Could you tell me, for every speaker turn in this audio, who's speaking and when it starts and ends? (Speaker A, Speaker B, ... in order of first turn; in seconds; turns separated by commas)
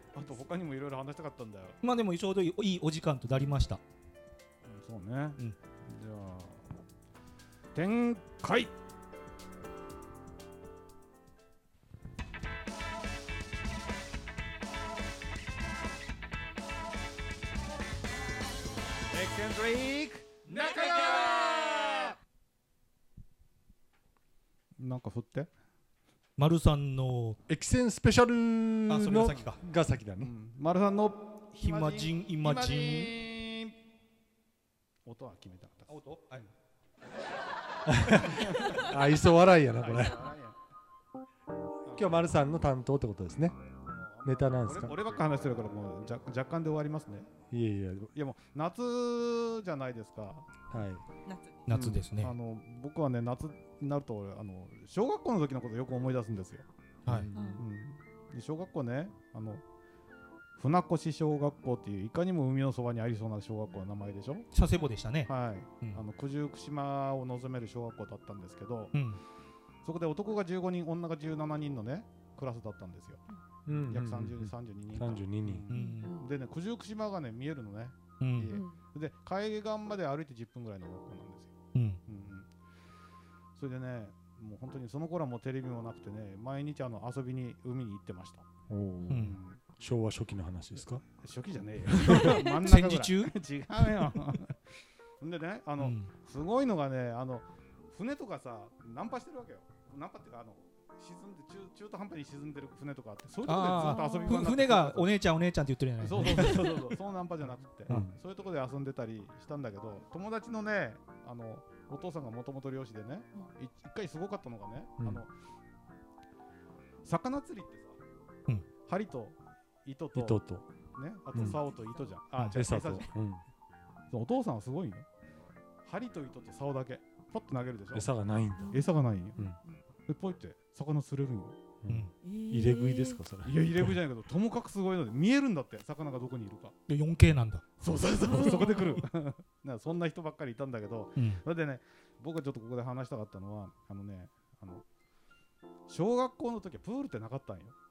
Speaker A: 0.1-1.8, Speaker B: 1.8-3.8, Speaker A: 4.7-6.7, Speaker A: 7.7-8.7, Speaker A: 19.1-22.2, Speaker A: 24.8-25.5, Speaker B: 26.4-27.4, Speaker C: 27.5-30.3, Speaker B: 28.9-29.6, Speaker A: 30.2-33.8, Speaker B: 31.6-33.1, Speaker A: 35.0-36.5, Speaker B: 35.9-36.5, Speaker C: 37.9-40.3, Speaker A: 38.1-39.0, Speaker A: 39.8-40.6, Speaker A: 41.9-42.4, Speaker C: 42.0-43.6, Speaker A: 43.9-47.3, Speaker C: 44.2-45.0, Speaker C: 47.5-48.1, Speaker A: 48.1-50.5, Speaker C: 50.7-51.0, Speaker D: 51.3-51.7, Speaker B: 51.7-52.4, Speaker A: 51.7-56.7, Speaker B: 57.0-57.3, Speaker C: 57.1-57.6, Speaker D: 57.3-57.6, Speaker A: 57.6-59.6, Speaker A: 60.6-64.5, Speaker B: 64.5-66.0, Speaker A: 65.3-68.9, Speaker B: 68.9-69.2, Speaker A: 69.8-73.2, Speaker C: 73.7-75.7, Speaker A: 73.8-81.5, Speaker B: 75.7-76.2, Speaker D: 75.7-76.3, Speaker B: 78.2-78.6, Speaker D: 78.5-78.8, Speaker B: 81.7-82.0, Speaker A: 82.1-82.5, Speaker A: 83.5-88.5, Speaker C: 88.7-91.0, Speaker B: 89.1-89.4, Speaker A: 89.1-89.6, Speaker A: 91.0-94.6, Speaker B: 92.0-93.3, Speaker D: 92.2-92.6, Speaker A: 95.2-105.1, Speaker B: 95.8-96.1, Speaker B: 103.5-106.9, Speaker D: 103.8-104.5, Speaker A: 106.0-115.3, Speaker C: 107.9-108.2, Speaker A: 117.0-118.0, Speaker A: 118.8-120.4, Speaker C: 120.2-120.7, Speaker A: 121.0-123.1, Speaker C: 121.3-121.6, Speaker D: 121.4-122.1, Speaker C: 122.5-123.4, Speaker A: 124.1-125.1, Speaker A: 125.8-128.1, Speaker C: 127.9-128.8, Speaker D: 128.6-128.8, Speaker A: 128.7-129.5, Speaker D: 129.5-129.8, Speaker A: 130.1-131.6, Speaker C: 131.8-134.0, Speaker D: 132.2-133.2, Speaker A: 133.4-136.8, Speaker B: 136.9-137.6, Speaker A: 137.8-144.8, Speaker D: 138.2-139.0, Speaker B: 141.2-141.4, Speaker A: 145.9-147.7